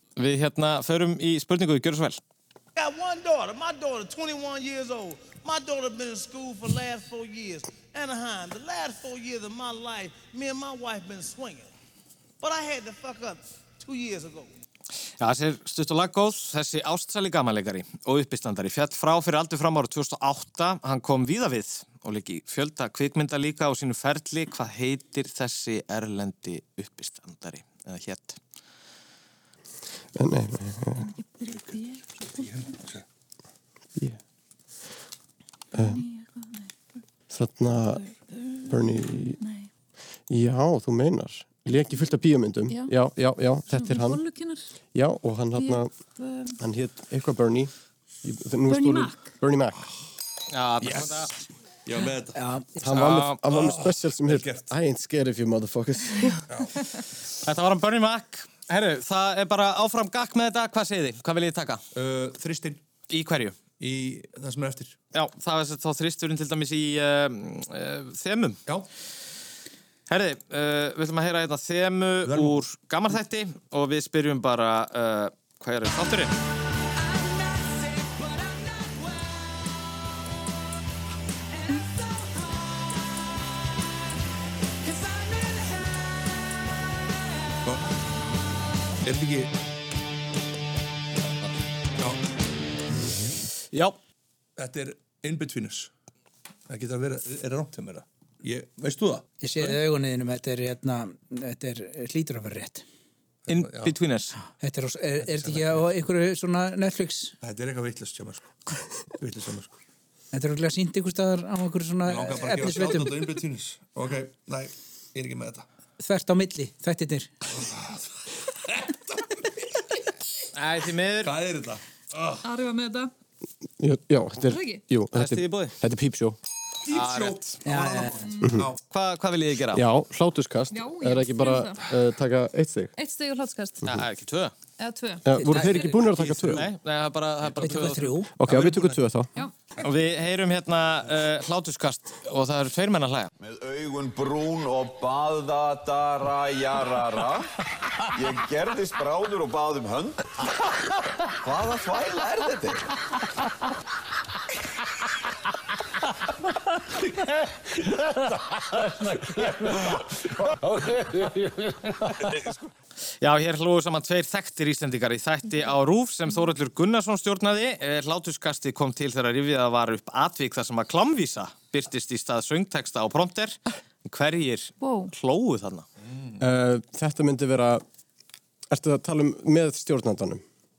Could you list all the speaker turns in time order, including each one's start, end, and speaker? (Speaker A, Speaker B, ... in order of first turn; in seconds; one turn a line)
Speaker A: 0.2-2.2
Speaker B: 2.8-11.7
Speaker B: 12.4-14.5
Speaker A: 15.2-28.4
Speaker C: 30.1-31.1
Speaker D: 31.0-32.5
Speaker E: 32.4-33.0
Speaker D: 35.7-36.7
Speaker C: 35.7-36.0
Speaker C: 37.3-38.0
Speaker D: 38.3-39.7
Speaker C: 38.7-39.4
Speaker C: 40.3-44.2
Speaker D: 43.7-44.7
Speaker C: 44.9-45.9
Speaker D: 45.5-46.5
Speaker C: 46.6-47.7
Speaker C: 48.2-49.8
Speaker D: 48.7-49.2
Speaker A: 50.5-51.3
Speaker E: 50.8-51.2
Speaker E: 51.9-52.4
Speaker F: 52.3-52.8
Speaker C: 52.8-56.3
Speaker E: 52.9-54.7
Speaker A: 53.0-53.4
Speaker A: 57.4-61.8
Speaker E: 61.9-62.8
Speaker A: 63.1-63.5
Speaker E: 63.8-65.0
Speaker A: 65.1-68.6
Speaker A: 70.1-76.4
Speaker E: 72.2-72.6
Speaker E: 87.6-87.9
Speaker E: 89.0-89.5
Speaker E: 94.6-95.9
Speaker E: 96.7-99.8
Speaker F: 99.4-102.8
Speaker E: 103.5-103.9
Speaker A: 103.5-104.3
Speaker F: 104.5-107.3
Speaker E: 105.2-105.9
Speaker E: 107.4-108.5
Speaker E: 109.2-109.8
Speaker F: 110.3-113.2
Speaker E: 112.0-115.7
Speaker F: 116.0-117.3
Speaker E: 117.5-118.0
Speaker E: 118.7-119.4
Speaker A: 120.5-121.3
Speaker E: 121.2-122.4
Speaker D: 122.4-123.1
Speaker C: 123.8-126.4
Speaker D: 124.4-124.8
Speaker A: 125.1-125.7
Speaker E: 126.8-128.8
Speaker A: 126.9-127.5
Speaker F: 127.6-128.2
Speaker D: 128.2-128.5
Speaker C: 128.4-128.7
Speaker A: 128.9-129.8
Speaker C: 129.7-132.9
Speaker D: 130.7-131.8
Speaker D: 133.0-133.8
Speaker A: 133.8-134.5
Speaker D: 134.8-136.1
Speaker C: 135.2-136.7
Speaker E: 136.2-136.6
Speaker A: 136.5-138.1
Speaker F: 137.6-138.3
Speaker C: 138.4-139.3
Speaker A: 139.8-143.3
Speaker G: 143.4-147.5
Speaker G: 148.1-150.2
Speaker G: 151.4-152.8
Speaker A: 163.2-175.8
Speaker D: 174.8-175.1
Speaker C: 176.4-177.8
Speaker C: 178.7-180.4